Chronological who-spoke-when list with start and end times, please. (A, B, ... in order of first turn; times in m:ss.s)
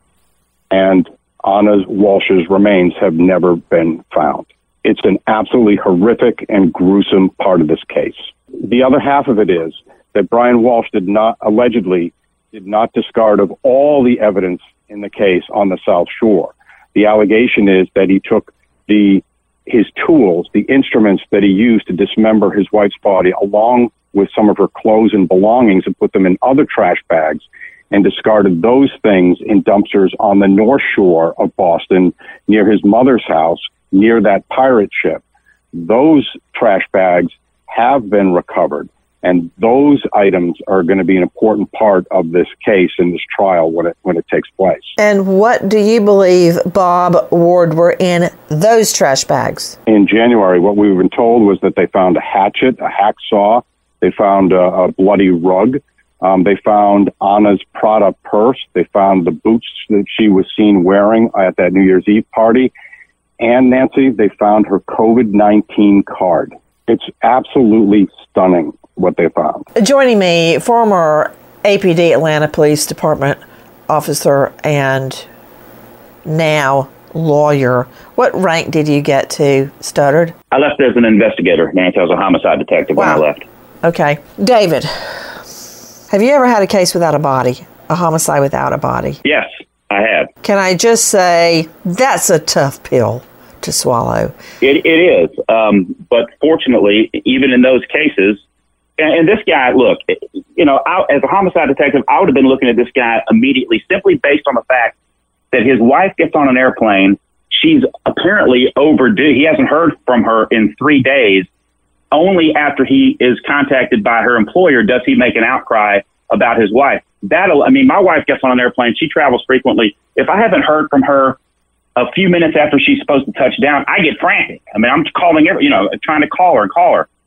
0:00.7-0:35.2 A
0:35.7-0:45.0 A
0:45.0-0:49.8 B
0:49.9-1:02.7 A
1:03.4-1:09.6 A
1:09.8-1:15.3 B
1:16.2-1:20.4 B
1:20.5-1:23.4 C
1:23.0-1:23.2 B
1:23.8-1:24.9 B
1:26.1-1:29.2 B
1:29.2-1:30.3 C
1:30.4-1:34.4 B
1:34.6-1:38.4 C
1:39.0-1:45.0 C
1:45.5-1:51.5 C
1:52.1-2:01.4 C
2:02.0-2:07.1 C